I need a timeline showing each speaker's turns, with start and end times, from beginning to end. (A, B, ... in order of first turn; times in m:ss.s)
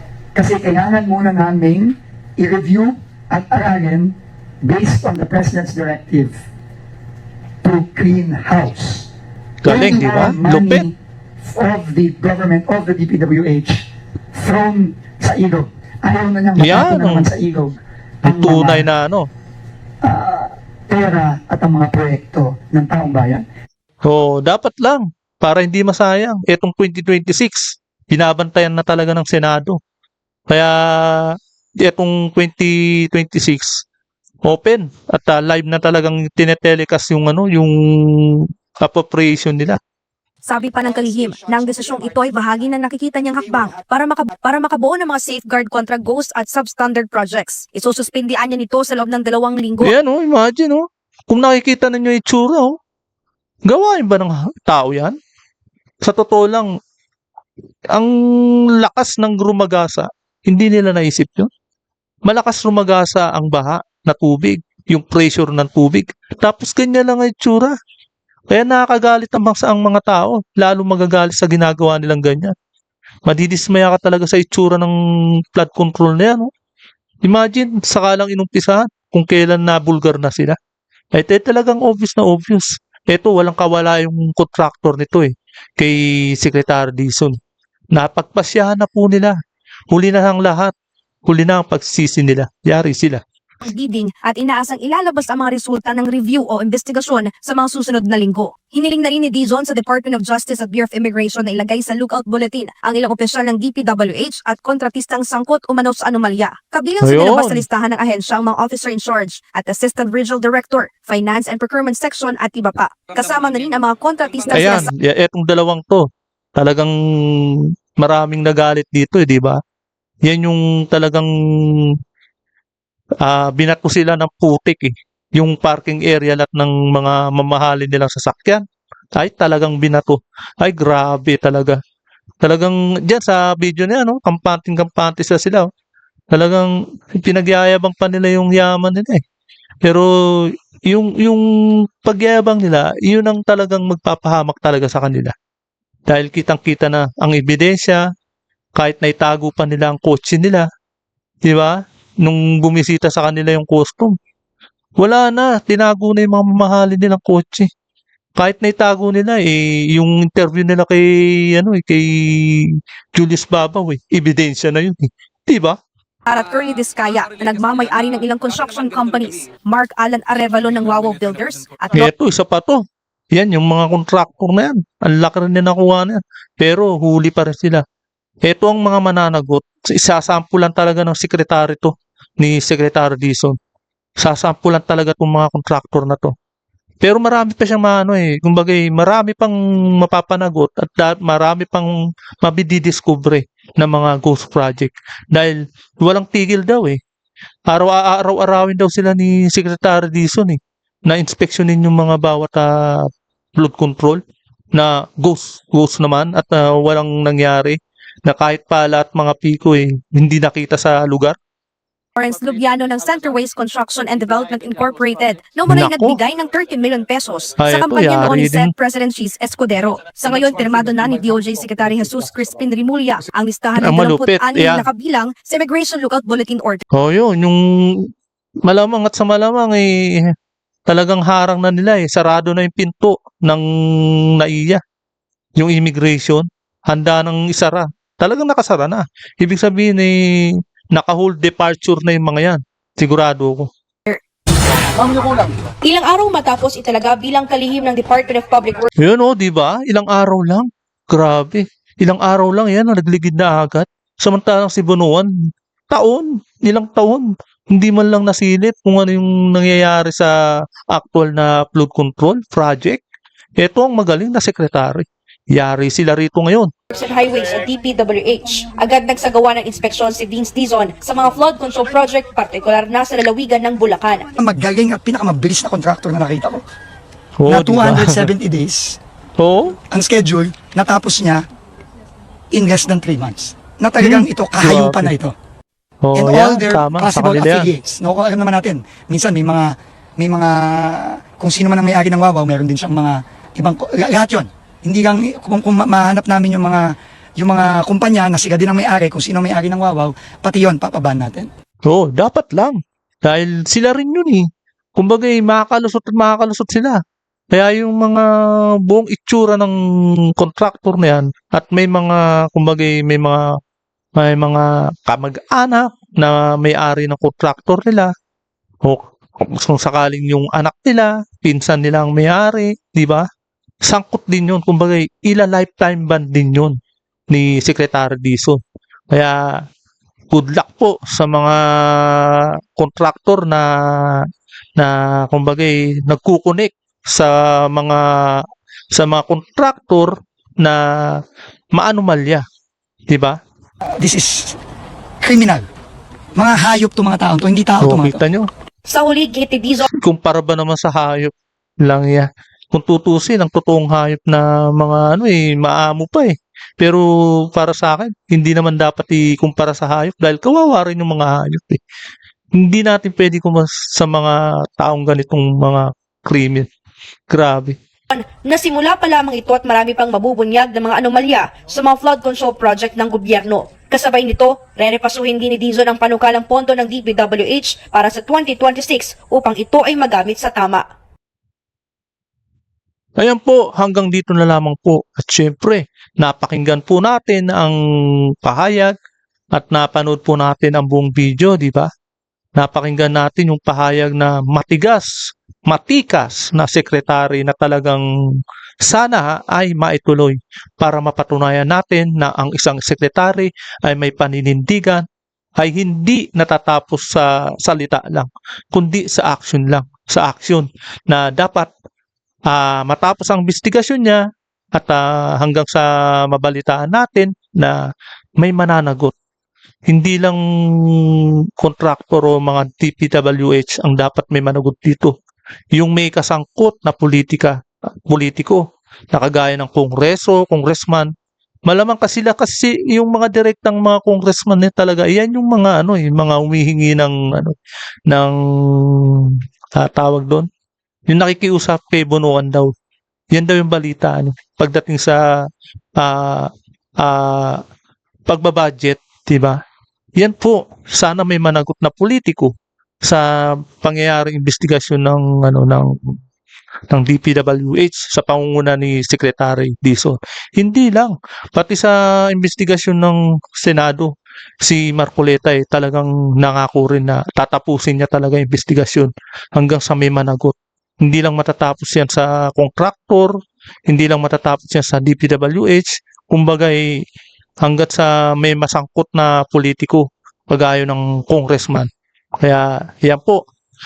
0:00.4-0:06.4 A
0:07.6-0:09.1 A
0:09.6-0:10.9 B
0:09.7-0:13.8 A
0:14.4-0:18.8 A
0:16.6-0:17.3 B
0:18.2-0:19.3 B
0:20.0-0:23.4 A
0:24.0-0:29.8 B
0:30.5-0:33.8 B
0:34.4-0:39.8 B
0:40.4-0:49.9 C
0:40.7-0:42.7 A
0:43.3-0:43.8 A
0:49.8-0:52.8 B
0:53.7-0:55.2 B
0:56.0-0:56.7 B
0:57.9-1:01.5 B
1:02.3-1:07.8 B
1:08.5-1:12.5 B
1:13.3-1:15.0 B
1:15.5-1:16.5 B
1:17.2-1:20.6 B
1:21.1-1:27.4 B
1:27.9-1:29.4 B
1:29.9-1:30.7 B
1:31.3-1:33.2 B
1:33.6-1:54.9 C
1:47.0-1:47.6 B
1:54.5-1:59.6 B
2:00.2-2:01.3 B
2:03.2-2:08.6 B
2:09.2-2:11.8 B
2:12.4-2:15.7 B
2:16.3-2:19.2 B
2:19.8-2:25.3 B
2:26.1-2:28.1 B
2:28.8-2:30.7 B
2:31.4-2:34.2 B
2:35.0-2:37.7 B
2:38.4-2:45.8 B
2:46.3-2:52.1 C
2:51.9-2:52.8 B
2:53.3-2:57.8 B
2:58.5-3:03.6 B
3:04.2-3:06.3 B
3:07.0-3:17.0 B
3:17.7-3:24.2 B
3:24.7-3:31.4 B
3:32.2-3:46.8 C
3:35.7-3:36.2 B
3:37.6-3:38.7 B
3:43.8-3:44.9 B
3:46.9-3:48.1 B
3:48.6-3:50.4 B
3:50.9-3:54.8 B
3:55.6-4:03.7 B
4:05.0-4:08.9 C
4:09.0-4:15.3 B
4:15.9-4:20.4 B
4:20.9-4:23.0 B
4:23.6-4:26.7 B
4:26.9-4:34.3 C
4:34.4-4:36.6 A
4:37.4-4:38.3 B
4:37.5-4:39.0 A
4:39.4-4:39.8 B
4:39.9-4:41.4 A
4:42.5-4:45.4 A
4:44.0-4:45.1 B
4:46.0-4:47.7 B
4:46.1-5:01.5 A
5:01.9-5:07.0 B
5:07.5-5:09.8 B
5:10.3-5:13.6 B
5:14.2-5:18.1 B
5:18.8-5:23.3 B
5:23.8-5:26.8 B
5:27.3-5:29.6 B
5:30.3-5:42.4 B
5:43.1-5:43.4 B
5:44.0-5:44.6 A
5:45.2-5:45.7 A
5:46.4-5:48.2 A
5:47.8-5:48.5 B
5:48.9-5:49.9 C
5:49.9-6:01.8 B
6:02.5-6:06.7 B
6:07.3-6:07.8 B
6:08.1-6:20.8 C
6:23.2-6:27.8 B
6:28.4-6:29.0 B
6:29.5-6:31.9 B
6:32.6-6:45.1 B
6:45.6-6:51.7 B
6:52.5-6:57.8 B
6:58.4-6:59.2 B
6:59.9-7:05.2 B
7:05.7-7:11.1 B
7:11.7-7:17.6 B
7:18.1-7:20.5 B
7:21.1-7:22.7 B
7:23.3-7:25.2 B
7:26.0-7:27.6 B
7:28.3-7:29.6 B
7:30.2-7:32.5 B
7:33.0-7:36.2 B
7:36.9-7:44.1 B
7:44.6-7:57.0 B
7:57.6-8:03.4 B